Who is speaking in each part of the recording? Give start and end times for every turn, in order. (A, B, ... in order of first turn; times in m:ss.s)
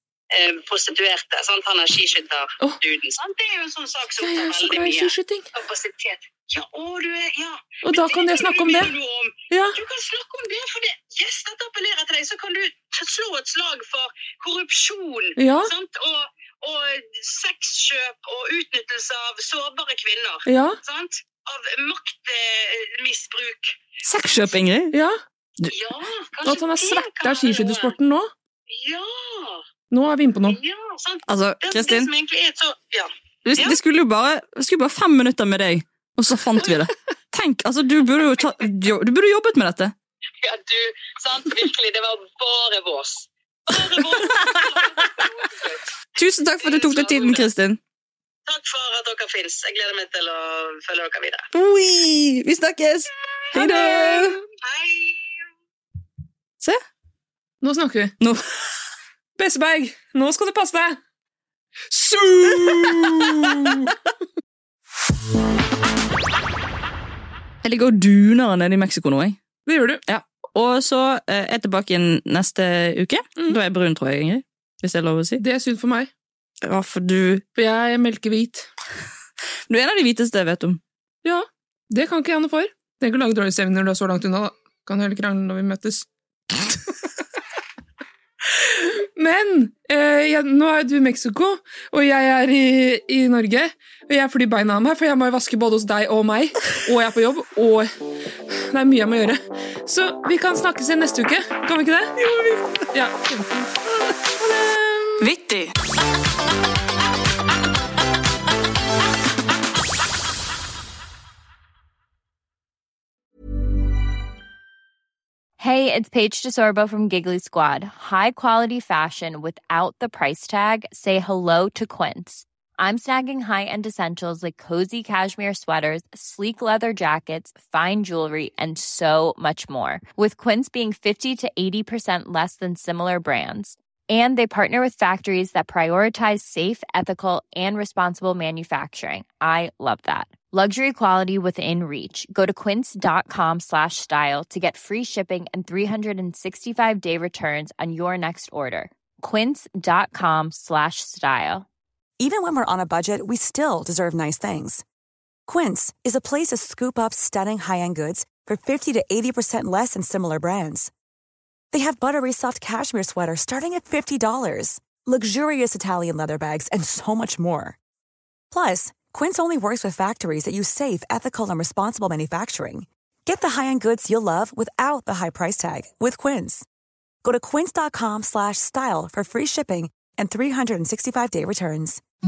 0:00.3-0:24.5 A
0:04.2-0:05.5 B
0:07.8-0:08.9 B
0:09.5-0:09.8 B
0:15.4-0:15.7 B
0:20.5-0:20.8 B
0:24.0-0:24.9 C
0:24.9-0:25.2 B
0:25.7-0:27.9 A
0:26.4-0:28.3 B
0:28.7-0:29.6 A
0:29.9-0:30.6 B
0:30.4-0:33.8 A
0:31.3-0:32.1 C
0:33.4-0:39.9 C
0:40.4-0:45.8 A
0:44.0-0:44.6 C
0:46.2-0:47.8 C
0:46.6-0:47.5 A
0:48.5-0:51.4 A
0:51.5-0:54.4 C
0:53.5-0:54.4 B
0:54.6-0:55.4 A
0:57.6-0:58.1 B
0:59.4-1:01.0 B
1:01.9-1:03.9 B
1:07.6-1:09.4 C
1:09.7-1:10.0 B
1:10.0-1:15.4 C
1:15.4-1:16.1 B
1:16.6-1:17.4 C
1:17.6-1:18.7 B
1:19.7-1:20.8 C
1:21.2-1:26.0 B
1:28.6-1:37.9 B
1:38.7-1:42.1 B
1:42.2-1:42.8 C
1:42.9-1:45.2 B
1:45.2-1:45.7 C
1:55.6-2:31.6 D
2:32.2-2:34.8 E
2:35.5-2:40.9 E
2:41.7-2:47.8 E
2:48.5-2:56.6 E
2:57.2-3:02.0 E